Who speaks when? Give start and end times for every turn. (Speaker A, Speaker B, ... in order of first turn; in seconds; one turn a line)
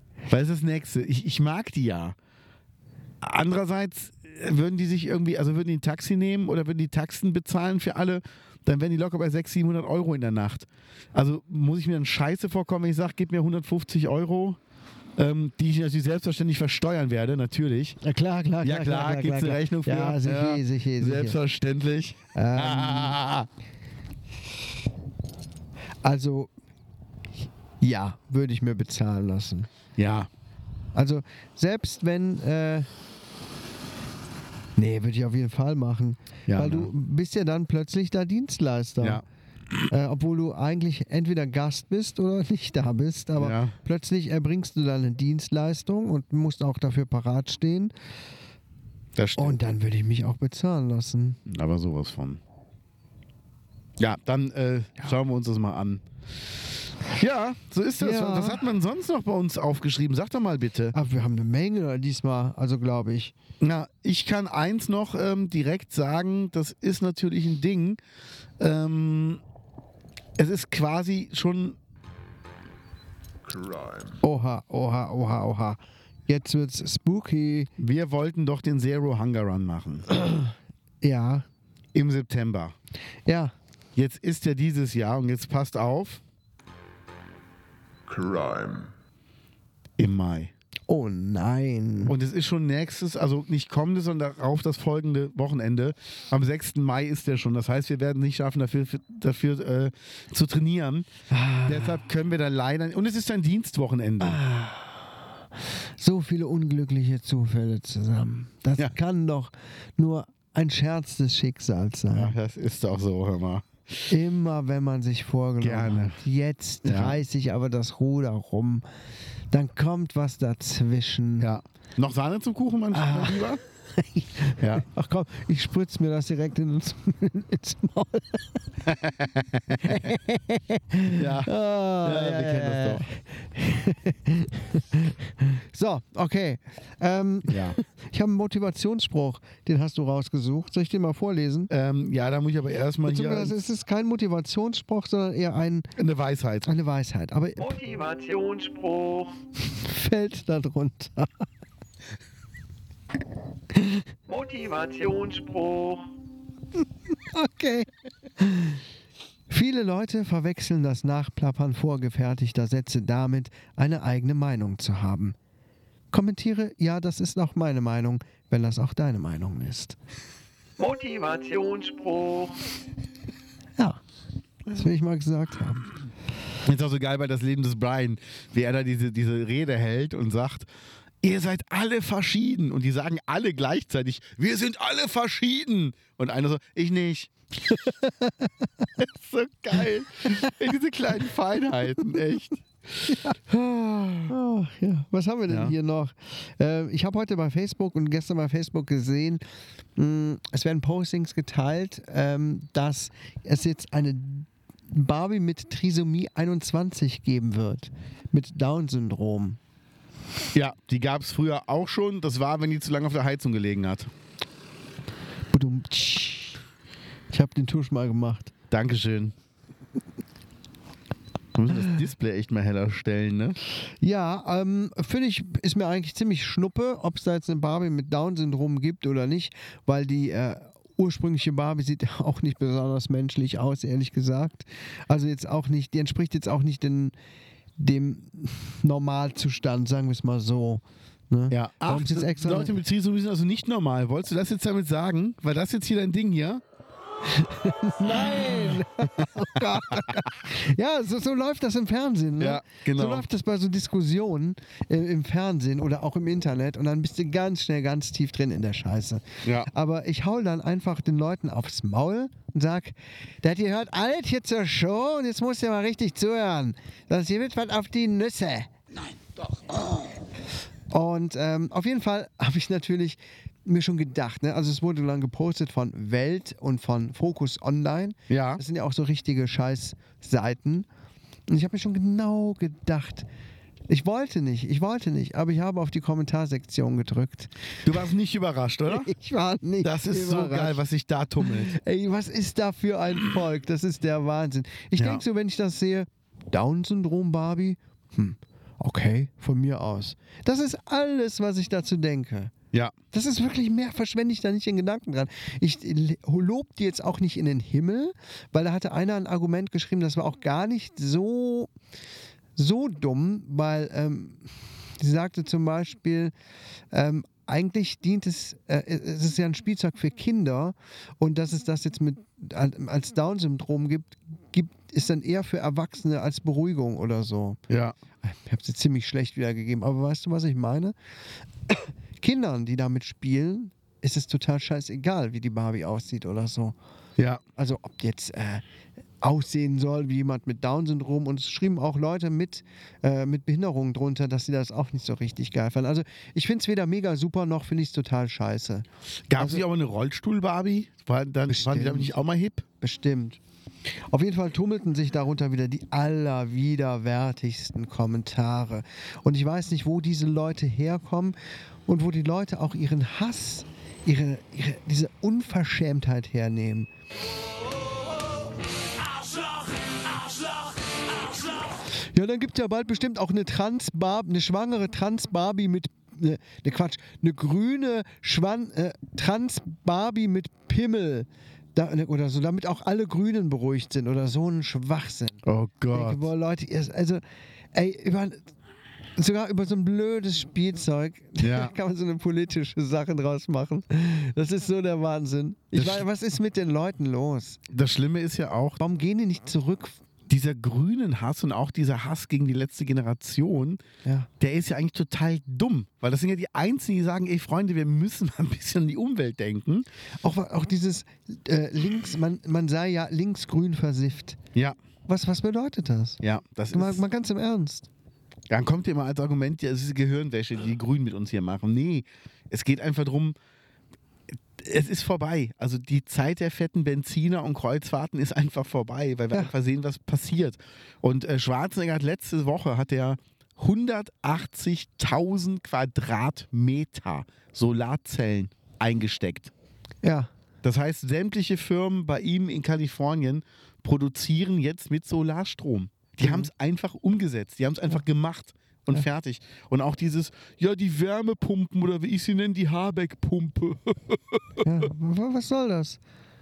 Speaker A: 0.3-2.1
Speaker A: 3.2-14.6
Speaker A: 15.2-18.0
Speaker B: 18.0-21.4
Speaker A: 18.6-23.5
Speaker B: 22.3-23.2
Speaker B: 26.0-26.5
Speaker B: 27.8-29.7
Speaker A: 30.0-30.3
Speaker B: 30.9-32.9
Speaker B: 34.8-39.2
Speaker A: 36.5-36.9
Speaker B: 39.9-47.9
Speaker A: 43.4-43.7
Speaker A: 49.1-49.6
Speaker B: 49.4-51.4
Speaker A: 51.5-52.4
Speaker A: 54.0-56.0
Speaker A: 57.1-61.0
Speaker B: 58.0-58.6
Speaker B: 60.9-63.4
Speaker A: 63.6-68.0
Speaker A: 68.6-69.4
Speaker A: 70.4-71.8
Speaker B: 74.2-77.7
Speaker A: 77.8-80.1
Speaker B: 80.1-81.5
Speaker A: 81.9-82.7
Speaker B: 83.2-83.5
Speaker A: 84.0-86.2
Speaker A: 90.0-90.5
Speaker B: 90.9-92.1
Speaker A: 92.0-101.1
Speaker B: 101.3-102.0
Speaker A: 101.6-104.4
Speaker B: 104.2-105.2
Speaker B: 106.0-112.3
Speaker A: 112.1-113.7
Speaker B: 114.1-118.8
Speaker A: 115.6-116.2
Speaker A: 116.8-117.2
Speaker B: 119.5-121.5
Speaker A: 121.4-123.6
Speaker B: 122.9-128.6
Speaker A: 124.6-124.8
Speaker A: 128.9-130.1
Speaker B: 129.8-141.7
Speaker A: 131.1-133.1
Speaker A: 137.5-137.8
Speaker A: 141.7-143.5
Speaker B: 143.1-145.9
Speaker A: 146.0-146.7
Speaker B: 146.7-147.6
Speaker C: 147.6-149.3
Speaker B: 149.7-151.5
Speaker C: 154.3-156.1
Speaker B: 157.1-158.8
Speaker B: 159.5-165.3
Speaker B: 166.1-170.0
Speaker C: 170.8-172.6
Speaker B: 174.7-175.9
Speaker A: 176.6-180.7
Speaker A: 181.2-187.3
Speaker B: 187.7-188.9
Speaker A: 189.0-194.3
Speaker B: 194.3-199.4
Speaker A: 195.5-195.7
Speaker B: 199.9-209.6
Speaker A: 210.5-214.1
Speaker B: 215.5-216.6
Speaker B: 217.3-218.5
Speaker A: 218.7-219.3
Speaker A: 221.5-223.6
Speaker B: 224.0-237.1
Speaker B: 237.8-242.8
Speaker A: 241.5-246.6
Speaker B: 247.3-268.7
Speaker A: 249.2-250.2
Speaker A: 252.4-253.2
Speaker A: 259.4-259.7
Speaker B: 270.9-280.9
Speaker A: 278.3-278.6
Speaker B: 281.5-283.3
Speaker B: 283.9-287.5
Speaker A: 287.8-289.1
Speaker B: 288.9-290.8
Speaker A: 289.8-291.7
Speaker B: 291.4-302.5
Speaker A: 294.9-295.2
Speaker B: 303.1-311.7
Speaker B: 312.6-316.3
Speaker B: 316.9-327.6
Speaker A: 327.7-327.9
Speaker B: 328.2-330.9
Speaker B: 331.7-336.8
Speaker B: 337.6-338.6
Speaker B: 339.2-348.8
Speaker A: 349.3-352.6
Speaker B: 349.4-349.6
Speaker B: 351.5-352.1
Speaker B: 352.8-353.4
Speaker B: 354.1-361.4
Speaker B: 361.9-366.9
Speaker B: 371.9-387.2
Speaker A: 385.4-386.3
Speaker B: 387.7-388.5
Speaker B: 389.2-397.6
Speaker A: 391.4-391.7
Speaker A: 395.7-396.0
Speaker A: 397.7-398.8
Speaker B: 398.8-400.0
Speaker A: 400.3-403.8
Speaker A: 404.4-409.9
Speaker B: 410.2-414.4
Speaker B: 415.1-416.2
Speaker A: 416.2-417.0
Speaker B: 416.7-417.9
Speaker A: 418.5-423.4
Speaker A: 424.6-439.5
Speaker B: 440.0-440.3
Speaker A: 440.6-454.4
Speaker B: 446.2-446.5
Speaker B: 454.6-456.0